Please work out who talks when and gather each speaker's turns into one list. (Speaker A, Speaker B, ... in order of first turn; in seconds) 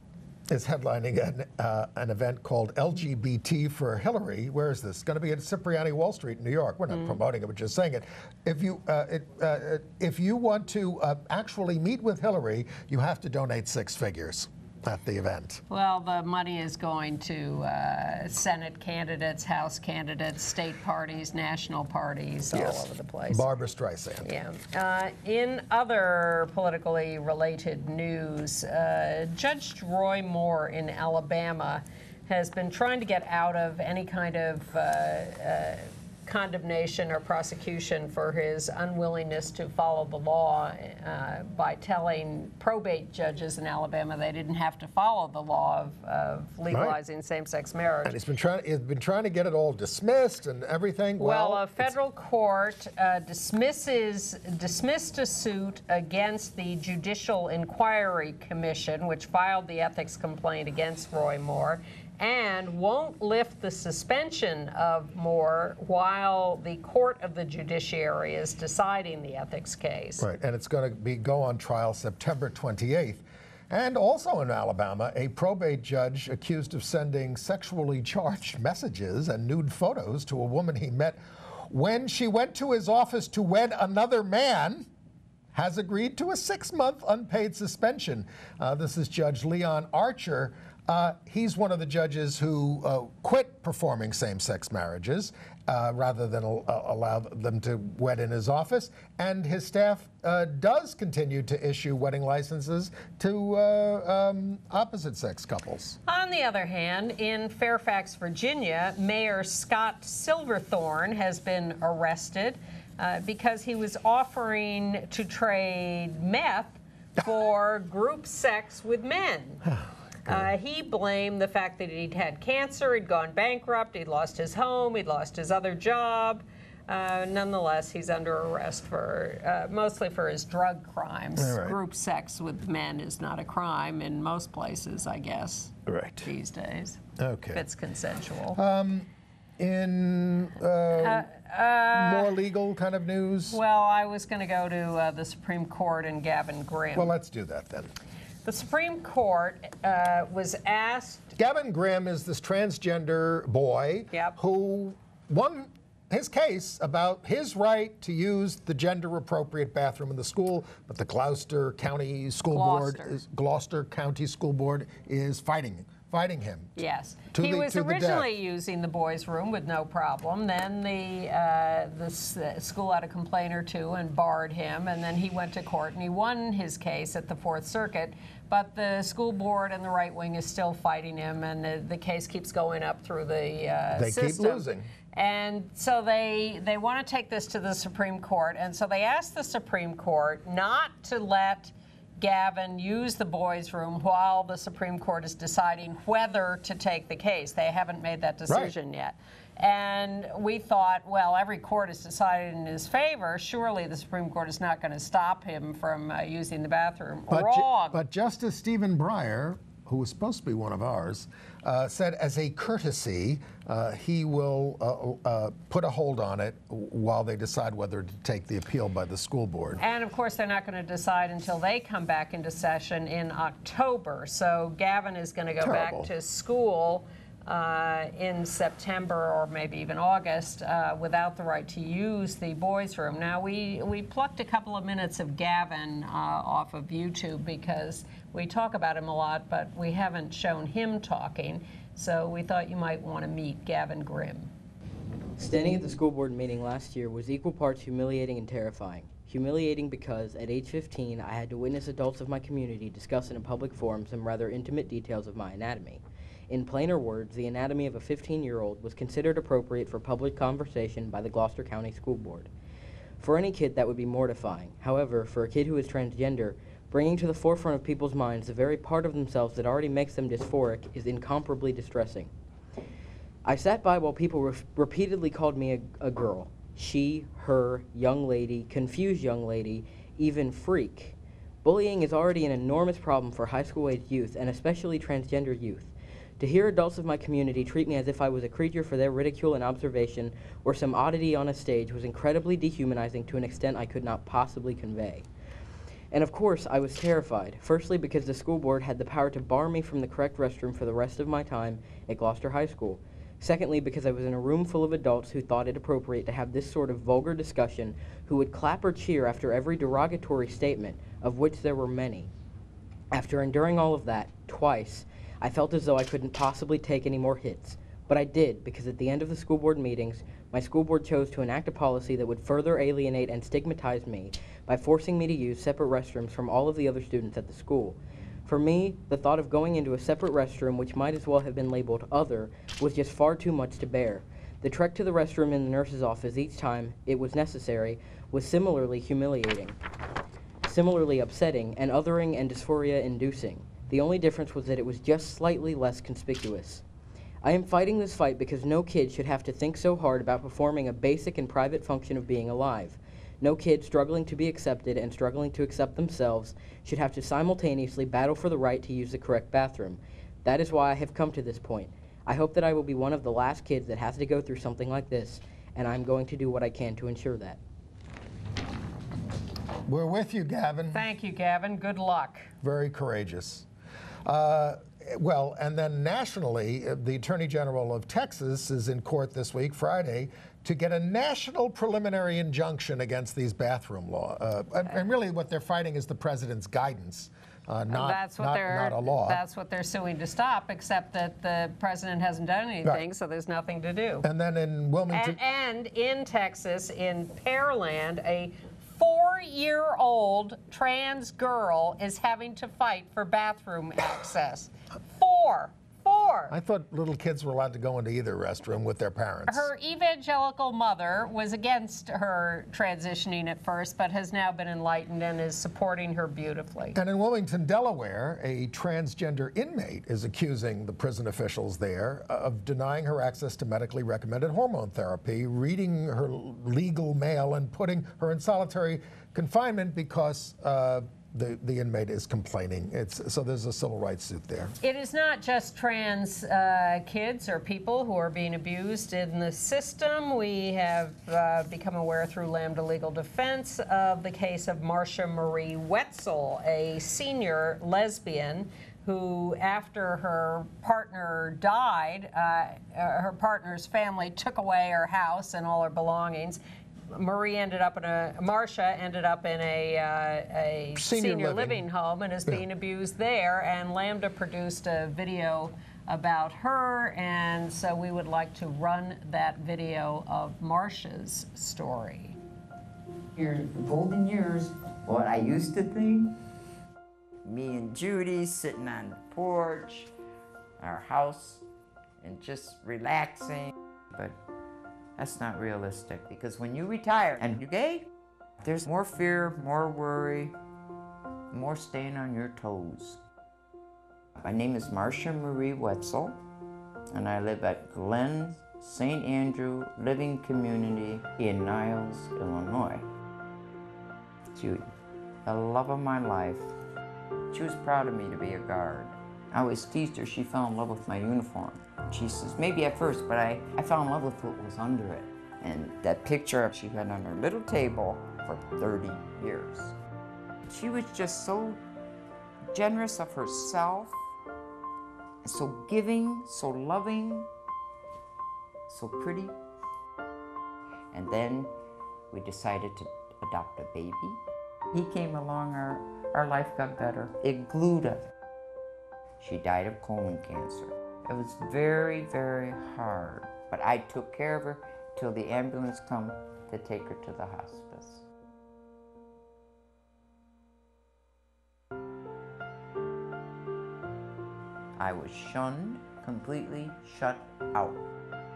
Speaker A: 0.5-15.6, 22.5-24.2, 46.7-47.0, 48.0-51.9, 70.2-84.9, 85.5-106.0, 119.7-120.5, 131.3-131.8, 135.8-136.3, 137.2-137.6, 138.5-141.3, 141.9-143.6, 146.9-147.9, 151.3-166.7, 167.3-168.3, 183.9-184.9, 198.5-198.7, 207.3-219.8, 225.6-226.1, 369.9-371.0, 372.6-373.6, 374.2-389.4, 394.2-395.4, 406.5-409.7, 416.9-434.7, 460.9-461.8
Speaker B: 15.7-23.4, 24.2-48.2, 51.2-70.2, 106.0-119.6, 120.2-137.0, 137.5-138.6, 141.0-142.3, 143.5-147.1, 148.4-151.3, 154.1-154.4, 162.5-163.2, 166.8-208.0, 219.8-244.5, 370.9-372.5, 387.9-394.3, 395.1-406.5, 409.5-417.0, 434.8-456.6, 457.1-472.4
Speaker C: 245.4-262.5, 263.2-272.3, 273.4-295.2, 296.1-312.3, 313.1-339.8, 340.6-346.8, 347.4-367.6
Speaker D: 473.3-476.4, 477.4-480.1, 480.8-481.6, 482.2-484.4, 485.2-488.1, 488.6-490.5, 491.5-493.2, 494.4-496.4, 497.1-503.1, 504.5-504.9, 505.4-506.7, 507.5-520.0, 520.7-521.8, 522.7-524.2, 525.4-527.5, 528.9-529.6, 531.1-531.7, 532.3-534.4, 534.9-538.3, 539.4-548.2, 555.0-558.0